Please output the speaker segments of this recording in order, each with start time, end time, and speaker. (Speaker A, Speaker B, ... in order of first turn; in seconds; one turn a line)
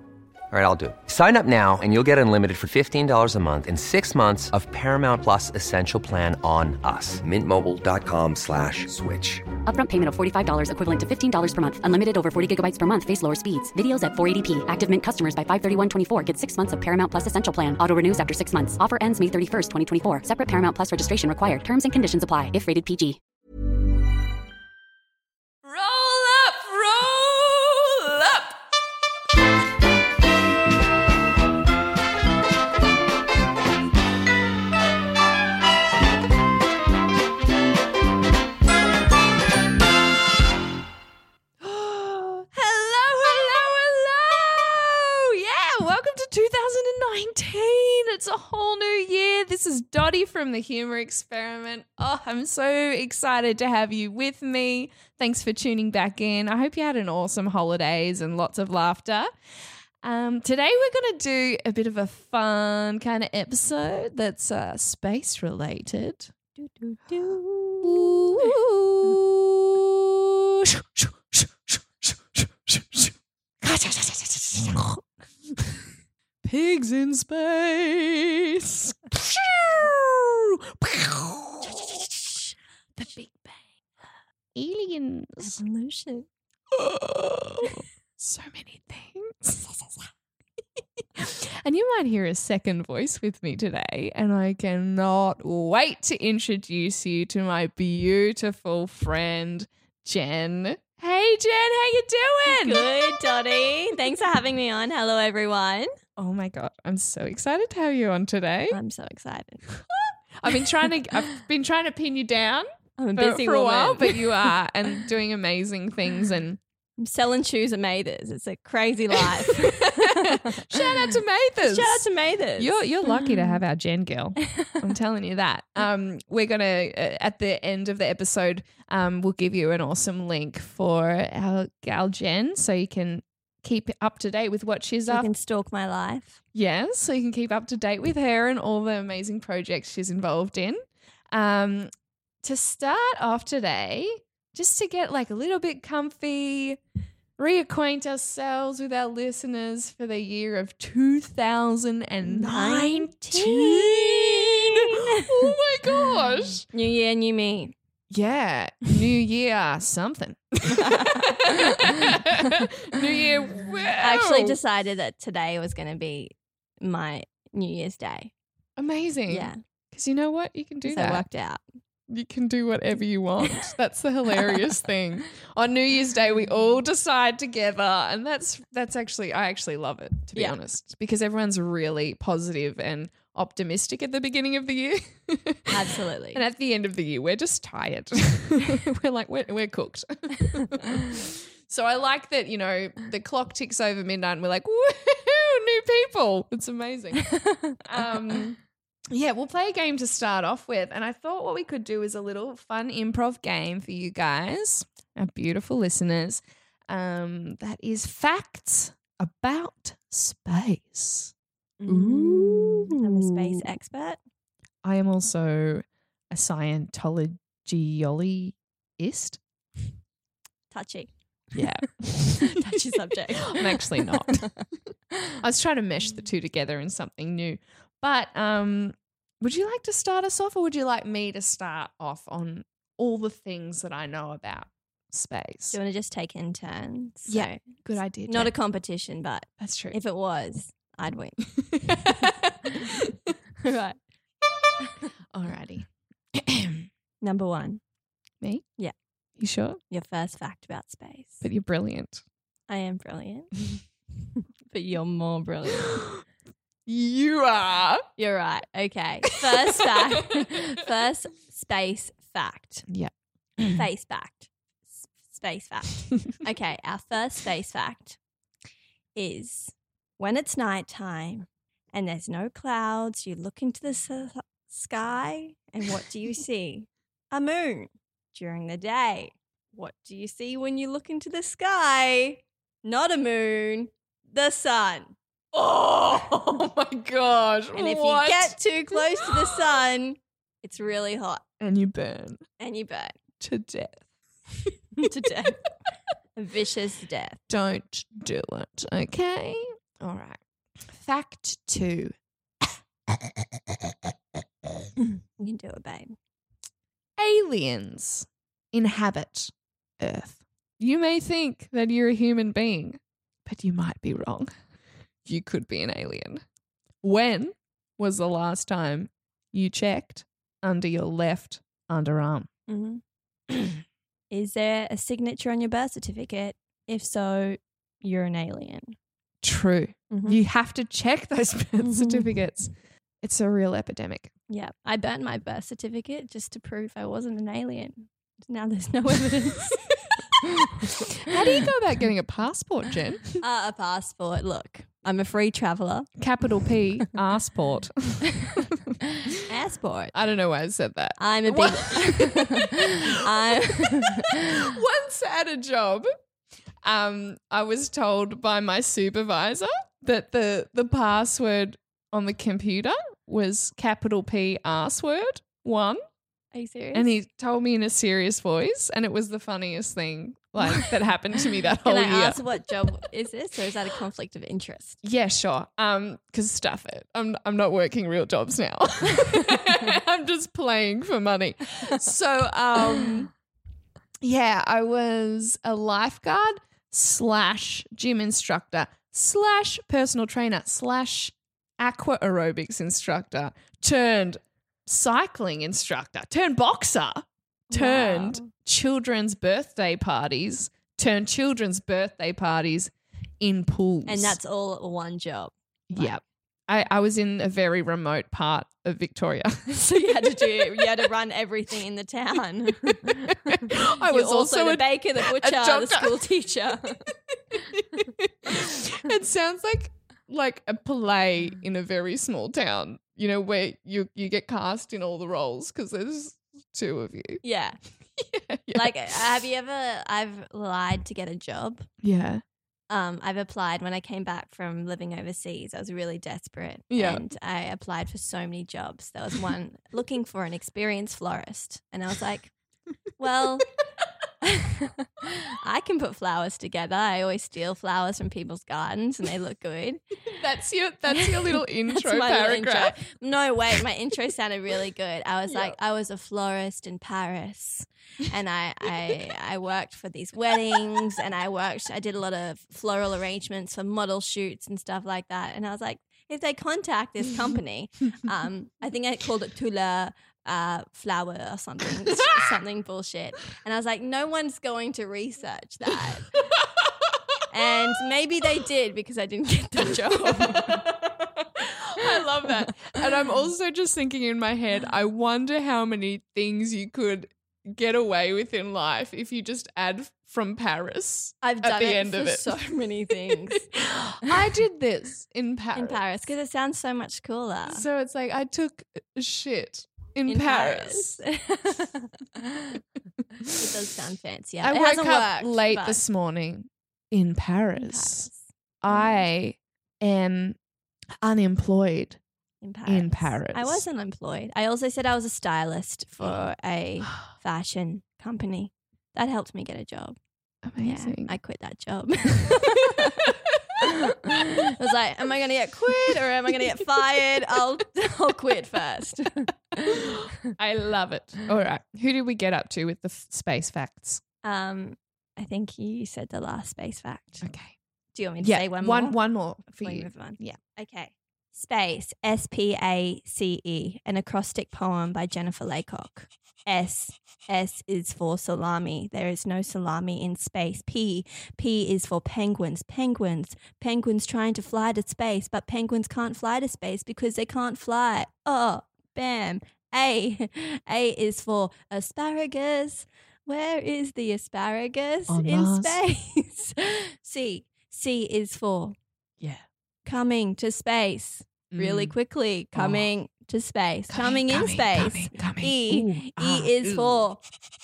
Speaker A: 0.5-9.5
Speaker B: 9.7-23.2
Speaker C: 25.6-28.6
Speaker C: 41.6-59.3
Speaker D: 43.2-43.7
Speaker C: 60.0-66.3
Speaker D: 66.6-68.5
Speaker C: 67.1-69.8
Speaker C: 70.6-75.1
Speaker C: 76.4-82.2
Speaker D: 81.6-82.5
Speaker C: 83.0-83.7
Speaker C: 84.5-85.6
Speaker D: 85.4-86.3
Speaker C: 86.7-89.7
Speaker C: 91.2-104.0
Speaker D: 102.5-105.9
Speaker C: 106.2-108.8
Speaker D: 108.7-109.7
Speaker C: 110.4-116.6
Speaker D: 113.0-114.4
Speaker D: 117.0-120.9
Speaker C: 119.3-135.3
Speaker D: 121.6-123.5
Speaker D: 135.1-136.4
Speaker C: 136.5-141.9
Speaker C: 142.4-146.8
Speaker C: 147.4-156.7
Speaker D: 152.3-155.5
Speaker D: 156.7-157.8
Speaker C: 158.1-164.6
Speaker D: 160.8-161.4
Speaker D: 164.0-168.3
Speaker C: 168.8-171.2
Speaker D: 169.3-169.6
Speaker D: 170.8-171.6
Speaker C: 172.1-185.8
Speaker D: 185.7-186.4
Speaker C: 186.3-198.6
Speaker D: 197.4-197.8
Speaker C: 199.1-211.3
Speaker D: 211.8-214.2
Speaker C: 211.9-213.6
Speaker C: 214.8-219.4
Speaker D: 220.7-221.7
Speaker C: 221.6-222.6
Speaker D: 222.4-224.7
Speaker C: 223.5-224.8
Speaker C: 225.4-235.8
Speaker D: 235.7-242.3
Speaker C: 237.3-238.5
Speaker C: 239.6-240.0
Speaker D: 243.6-244.0
Speaker C: 245.3-246.9
Speaker D: 247.2-247.8
Speaker C: 248.4-248.7
Speaker C: 249.4-249.8
Speaker D: 249.9-251.4
Speaker C: 251.4-252.2
Speaker D: 252.7-253.6
Speaker D: 254.7-256.0
Speaker C: 256.9-258.1
Speaker D: 258.2-262.9
Speaker C: 262.9-263.8
Speaker D: 263.8-268.2
Speaker D: 269.1-285.1
Speaker C: 285.5-289.7
Speaker D: 287.8-291.4
Speaker C: 291.6-292.4
Speaker D: 292.6-293.2
Speaker C: 293.4-294.1
Speaker D: 295.0-295.7
Speaker D: 296.4-297.4
Speaker C: 297.5-302.8
Speaker D: 305.0-306.1
Speaker C: 307.2-314.6
Speaker C: 315.2-316.4
Speaker C: 317.0-322.5
Speaker D: 322.7-323.0
Speaker D: 324.3-329.0
Speaker C: 329.4-334.3
Speaker D: 330.1-330.4
Speaker D: 331.8-332.4
Speaker D: 334.5-339.9
Speaker C: 341.3-343.3
Speaker D: 341.3-341.6
Speaker D: 343.4-346.1
Speaker C: 346.2-348.3
Speaker D: 349.4-350.1
Speaker C: 350.1-352.7
Speaker D: 351.2-354.4
Speaker C: 353.5-356.1
Speaker C: 356.8-366.0
Speaker D: 366.5-367.1
Speaker C: 366.9-372.5
Speaker D: 371.9-375.0
Speaker C: 375.0-383.3
Speaker C: 384.2-404.4
Speaker D: 397.7-398.5
Speaker D: 404.1-406.2
Speaker C: 405.9-411.1
Speaker D: 409.7-417.1
Speaker C: 413.1-416.3
Speaker C: 417.1-427.4
Speaker D: 427.4-427.8
Speaker C: 428.2-429.2
Speaker D: 428.7-431.9
Speaker C: 432.0-432.4
Speaker D: 432.9-442.6
Speaker C: 436.9-437.3
Speaker D: 443.1-443.7
Speaker D: 444.4-450.0
Speaker C: 450.3-453.0
Speaker D: 451.1-476.5
Speaker C: 455.5-455.8
Speaker D: 477.5-480.9
Speaker C: 480.4-492.6
Speaker D: 491.4-494.4
Speaker C: 493.3-496.0
Speaker D: 495.8-497.8
Speaker C: 497.7-501.2
Speaker D: 500.3-502.1
Speaker D: 503.6-506.0
Speaker C: 504.6-508.3
Speaker D: 507.8-509.2
Speaker C: 508.8-510.6
Speaker C: 511.2-512.2
Speaker D: 512.6-520.2
Speaker C: 512.9-513.8
Speaker C: 520.6-521.3
Speaker D: 520.8-523.2
Speaker D: 524.6-530.1
Speaker C: 525.9-526.2
Speaker C: 530.4-534.2
Speaker D: 534.4-537.5
Speaker C: 537.4-537.8
Speaker D: 538.1-569.0
Speaker C: 538.4-540.6
Speaker C: 565.3-566.0
Speaker D: 570.1-577.4
Speaker C: 571.7-572.2
Speaker C: 572.7-573.1
Speaker C: 574.1-577.3